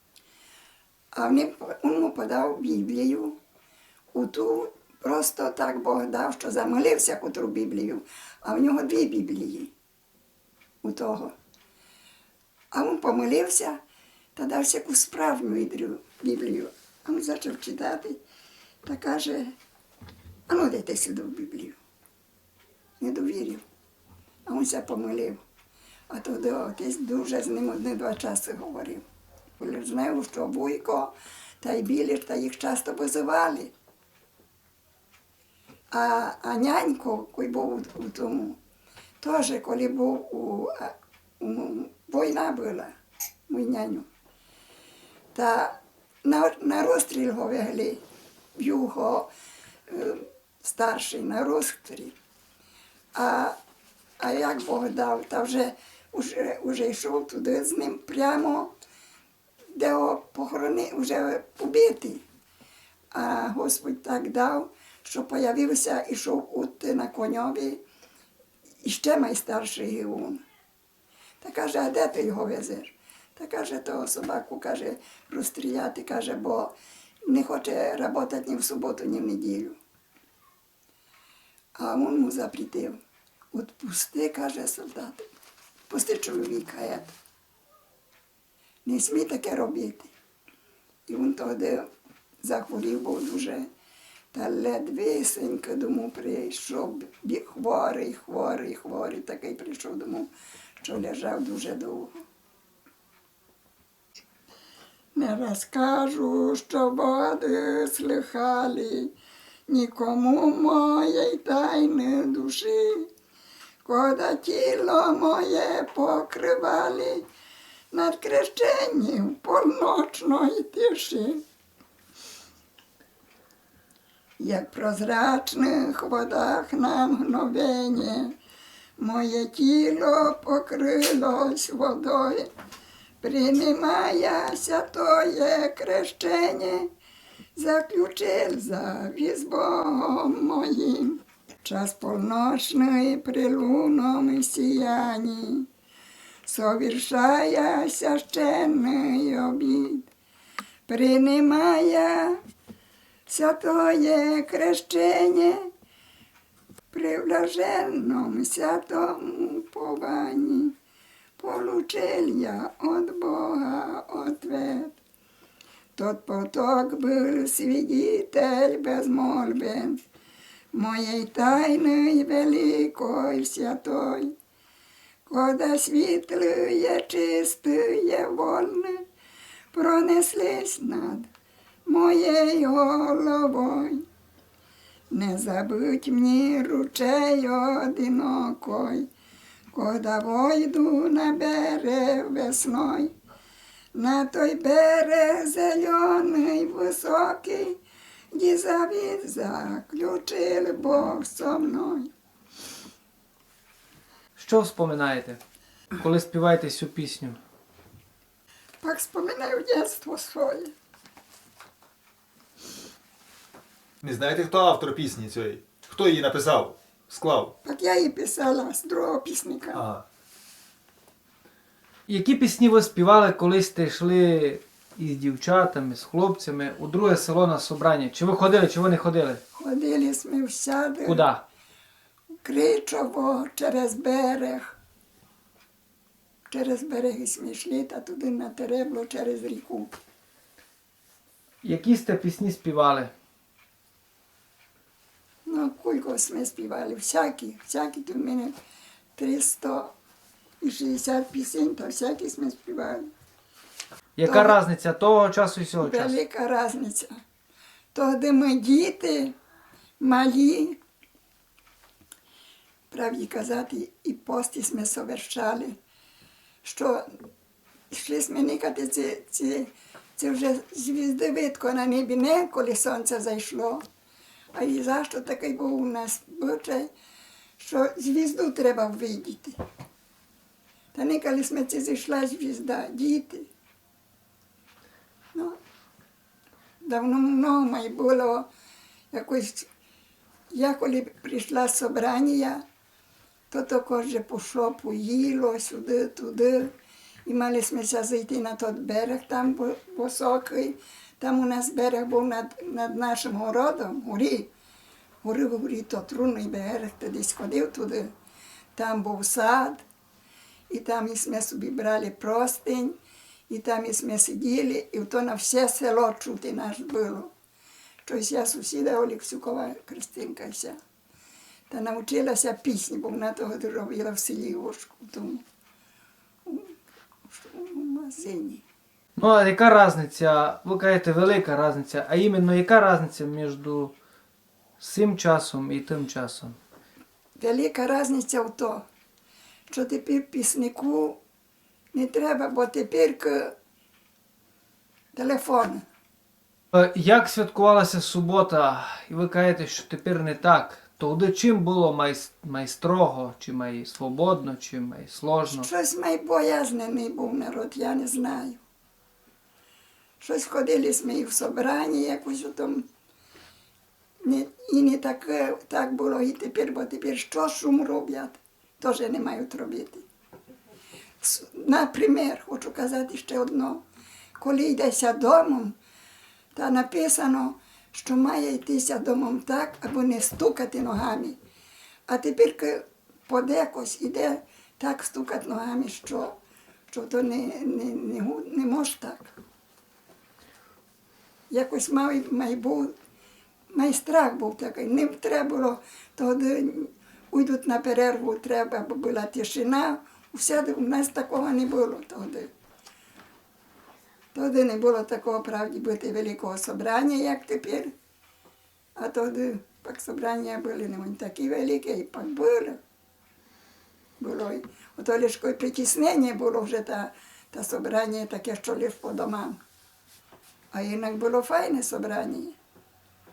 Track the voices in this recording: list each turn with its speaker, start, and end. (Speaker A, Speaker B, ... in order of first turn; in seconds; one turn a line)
Speaker A: 1.1-3.4
Speaker A: 4.1-9.7
Speaker A: 10.8-11.3
Speaker A: 12.7-13.8
Speaker A: 14.3-18.2
Speaker A: 18.8-19.5
Speaker A: 20.5-21.8
Speaker A: 23.0-23.6
Speaker A: 24.4-25.4
Speaker A: 26.1-29.0
Speaker A: 29.6-33.7
Speaker A: 35.9-38.6
Speaker A: 39.2-42.9
Speaker A: 43.5-44.1
Speaker A: 45.3-48.0
Speaker A: 48.5-49.3
Speaker A: 49.9-52.1
Speaker A: 53.1-53.5
Speaker A: 54.2-58.7
Speaker A: 59.7-62.2
Speaker A: 63.1-67.8
Speaker A: 68.8-70.4
Speaker A: 71.4-76.7
Speaker A: 77.3-79.8
Speaker A: 81.8-83.0
Speaker A: 83.5-85.3
Speaker A: 85.9-87.1
Speaker A: 88.8-90.1
Speaker A: 91.1-91.9
Speaker A: 92.4-93.7
Speaker A: 94.3-102.1
Speaker A: 105.1-109.1
Speaker A: 109.7-113.1
Speaker A: 113.8-117.2
Speaker A: 117.9-121.4
Speaker A: 124.4-128.3
Speaker A: 129.0-132.5
Speaker A: 133.2-136.9
Speaker A: 137.6-145.7
Speaker A: 146.4-150.1
Speaker A: 150.9-152.4
Speaker A: 153.3-155.7
Speaker A: 156.9-160.7
Speaker A: 161.4-165.0
Speaker A: 165.9-170.0
Speaker A: 170.7-174.3
Speaker A: 175.3-179.0
Speaker A: 179.7-181.3
Speaker A: 181.9-184.0
Speaker A: 185.1-189.1
Speaker A: 189.7-193.1
Speaker A: 193.9-197.8
Speaker A: 198.3-202.1
Speaker B: 204.4-205.4
Speaker B: 206.0-207.4
Speaker A: 208.8-210.7
Speaker C: 214.0-217.5
Speaker A: 217.6-219.8
Speaker C: 219.8-220.0
Speaker B: 222.1-229.4
Speaker A: 229.5-231.3
Speaker B: 231.1-231.4
Speaker A: 232.4-234.8
Speaker A: 236.5-240.0
Speaker B: 241.6-243.1
Speaker A: 245.4-248.5
Speaker A: 249.2-249.9
Speaker A: 250.6-253.1
Speaker B: 254.2-256.1
Speaker A: 254.2-254.6
Speaker A: 255.8-257.1
Speaker A: 257.9-259.4
Speaker A: 260.0-260.8
Speaker A: 262.9-265.7
Speaker A: 266.6-267.0
Speaker A: 267.9-273.8
Speaker A: 274.5-276.9
Speaker A: 277.6-279.6
Speaker A: 280.9-283.5
Speaker A: 286.8-288.5
Speaker A: 289.1-289.7
Speaker A: 290.5-292.6
Speaker A: 293.5-296.7
Speaker A: 297.2-304.5
Speaker A: 305.2-308.1
Speaker A: 308.7-309.8
Speaker A: 310.7-313.0
Speaker A: 313.5-317.3
Speaker A: 318.0-320.8
Speaker A: 321.7-325.4
Speaker A: 326.4-326.7
Speaker A: 327.3-328.6
Speaker B: 329.2-333.9
Speaker B: 334.8-336.6
Speaker A: 337.4-338.8
Speaker A: 339.7-341.2
Speaker A: 341.9-343.5
Speaker A: 345.1-345.8
Speaker B: 346.7-355.7
Speaker A: 355.5-358.6
Speaker A: 360.2-362.9
Speaker A: 364.2-370.0
Speaker A: 371.2-373.8
Speaker A: 374.4-375.8
Speaker A: 376.5-381.4
Speaker A: 382.1-386.4
Speaker A: 386.9-389.3
Speaker A: 391.5-392.9
Speaker A: 393.7-402.5
Speaker A: 404.3-407.9
Speaker A: 409.0-412.8
Speaker A: 414.2-419.6
Speaker A: 420.7-422.6